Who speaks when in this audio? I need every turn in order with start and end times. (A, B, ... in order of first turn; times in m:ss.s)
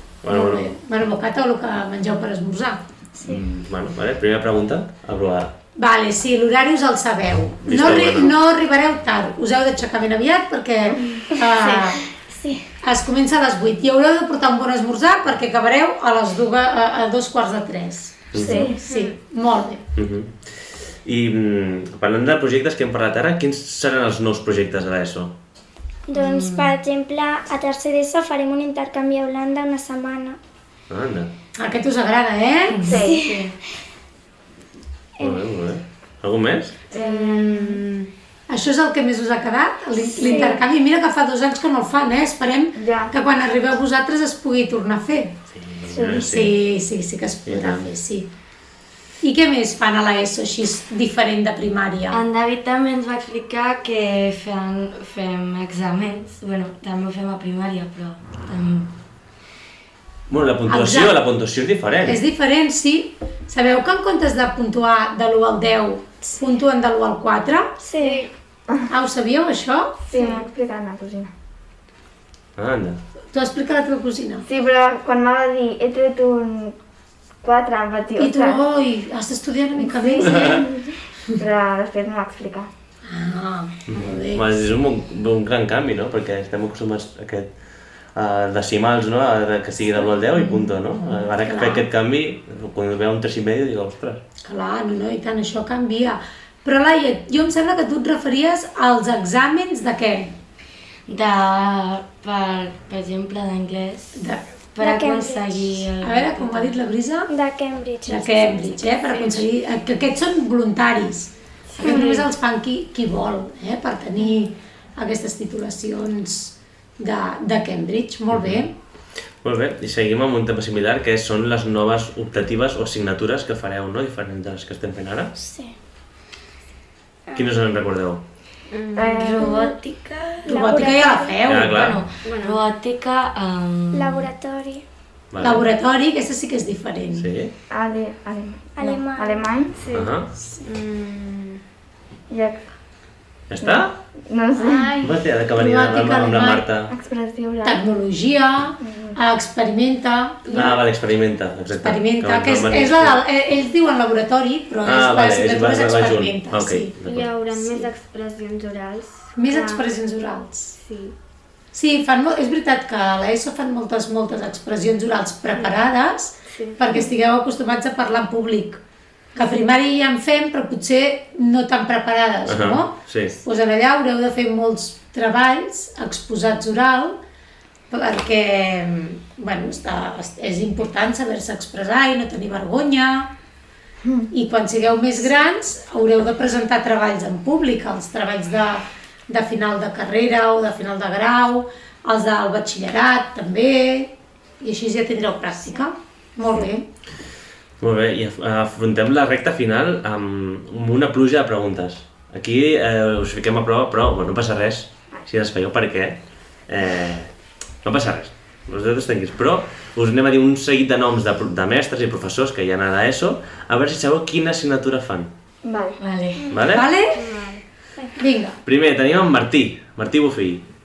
0:00.2-0:00.8 A
0:00.3-0:02.8 B
0:03.2-0:05.5 A
0:05.8-0:12.1 B
0:07.6-0:08.4 A
0:11.6-0:12.0 C
0:12.2-0:12.6 D
0:12.8-0:19.8 B
0:18.3-0:18.7 A
0:18.4-0:18.8 E
0:18.8-0:19.2 C
0:20.0-0:25.4 A
0:26.1-0:30.4 D
0:26.2-0:26.7 F
0:30.9-0:31.3 A
0:31.6-0:32.9 B
0:32.7-0:33.6 F
0:32.8-0:33.4 E
0:33.0-0:33.4 D
0:35.2-0:36.8 A
0:36.9-0:37.8 E
0:36.9-0:38.1 C
0:38.5-0:45.4 B
0:40.2-0:40.6 D
0:40.2-0:40.6 E
0:42.7-0:43.1 E
0:45.5-0:46.6 A
0:45.9-0:46.3 E
0:46.0-0:48.3 B
0:47.5-0:47.9 A
0:49.2-0:52.2 B
0:52.1-0:58.9 F
1:00.3-1:02.2 A
1:00.7-1:01.2 B
1:02.0-1:07.8 B
1:07.8-1:08.3 D
1:08.0-1:08.3 C
1:08.9-1:10.0 B
1:10.1-1:11.3 E
1:10.1-1:10.4 C
1:12.6-1:13.0 A
1:13.3-1:14.5 B
1:14.5-1:16.8 E
1:17.4-1:18.6 E
1:18.2-1:20.7 B
1:19.8-1:22.7 E
1:20.2-1:20.6 A
1:23.1-1:24.5 B
1:23.9-1:27.5 A
1:28.2-1:34.2 A
1:30.4-1:31.8 B
1:34.4-1:40.4 B
1:41.1-1:44.2 F
1:44.2-1:44.4 B
1:44.8-1:46.8 F
1:44.8-1:45.6 D
1:46.0-1:47.3 B
1:47.3-1:48.9 D
1:48.0-1:58.7 B
1:51.7-1:52.1 F
1:58.3-1:58.7 A
1:59.4-2:05.3 A
2:05.4-2:05.7 D
2:07.4-2:08.2 A
2:08.7-2:09.5 C
2:09.0-2:09.7 E
2:09.1-2:10.6 F
2:10.5-2:11.4 D
2:10.5-2:12.0 B
2:11.5-2:12.0 A
2:11.7-2:14.3 F
2:12.2-2:12.6 C
2:13.9-2:14.8 D
2:15.3-2:15.7 A
2:15.4-2:17.3 B
2:17.1-2:17.5 A
2:17.7-2:19.8 E
2:18.8-2:19.4 D
2:19.8-2:21.6 C
2:19.9-2:20.3 A
2:22.3-2:22.7 E
2:23.5-2:24.0 A
2:23.6-2:25.0 E
2:24.6-2:25.2 C
2:25.0-2:26.9 A
2:25.5-2:26.7 B
2:26.9-2:27.8 E
2:27.6-2:30.8 B
2:28.8-2:29.2 E
2:30.5-2:30.8 C
2:30.5-2:33.2 A
2:31.8-2:37.0 B
2:34.8-2:37.3 A
2:37.0-2:39.9 C
2:39.4-2:40.8 B
2:40.8-2:41.2 C
2:41.7-2:48.8 B
2:46.5-2:47.1 C
2:49.4-2:57.2 B
2:52.5-2:53.4 A
2:57.9-3:03.3 B
3:04.0-3:04.3 E
3:04.3-3:16.9 B
3:17.8-3:27.3 A
3:27.8-3:35.3 A
3:35.6-3:36.0 E
3:36.0-3:36.4 F
3:36.4-3:36.7 D
3:36.5-3:36.9 A
3:36.7-3:37.2 B
3:37.1-3:37.6 C
3:38.2-3:38.6 B
3:38.6-3:40.6 A